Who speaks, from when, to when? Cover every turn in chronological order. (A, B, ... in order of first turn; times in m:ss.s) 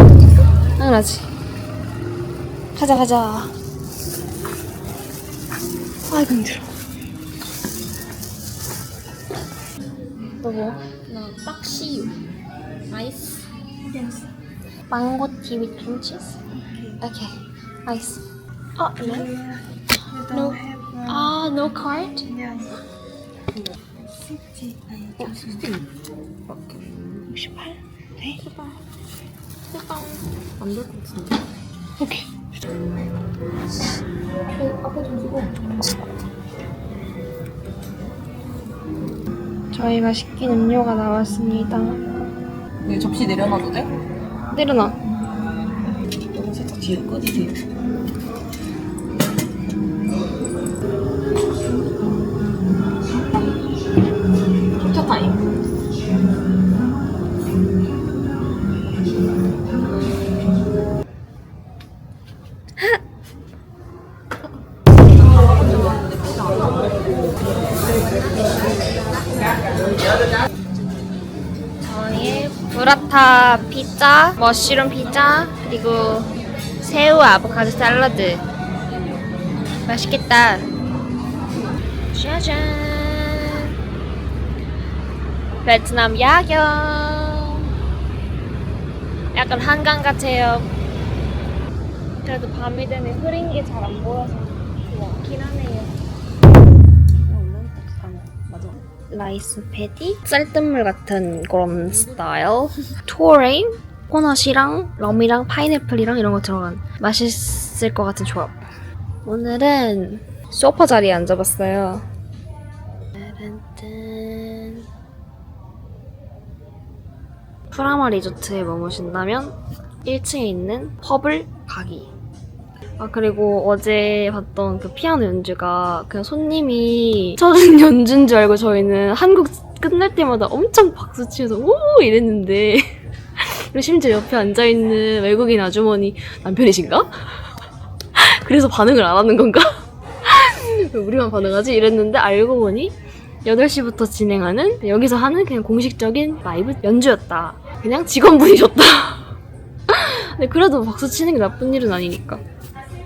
0:00.8-0:01.3 A
0:02.8-0:03.5 A
0:06.1-0:06.7 A
0:10.4-0:10.8 A
0:14.9-0:16.4 A
0:17.0-0:17.3 A
0:17.9-0:18.2 A
0:18.8-0:19.3 A
0:19.0-0:19.5 B
0:20.2-0:21.3 B
0:20.3-0:22.3 A
0:22.3-0:22.7 B
0:24.3-0:25.7 B
0:26.5-0:27.3 B
0:27.3-0:28.4 A
0:28.4-0:28.8 B
0:29.7-0:31.4 B
0:32.0-0:32.3 A
0:34.6-0:35.7 B
0:39.7-0:42.0 A
0:42.8-0:43.9 B
0:44.6-0:45.0 A
0:46.3-0:47.6 B
0:54.8-0:55.4 A
1:05.2-1:07.3 B
1:11.8-1:16.3 A
1:16.8-1:18.4 A
1:19.9-1:20.7 A
1:22.1-1:23.6 A
1:25.6-1:27.6 A
1:29.3-1:30.7 A
1:32.2-1:35.9 A
1:37.2-1:38.8 B
1:39.1-1:48.6 A
1:41.9-1:42.2 B
1:49.2-1:52.1 A
1:53.2-1:54.8 A
1:57.7-2:02.1 A
2:03.0-2:12.9 A
2:13.6-2:17.1 A
2:18.2-2:19.7 A
2:20.2-2:22.9 A
2:23.4-2:29.3 A
2:29.9-2:32.4 A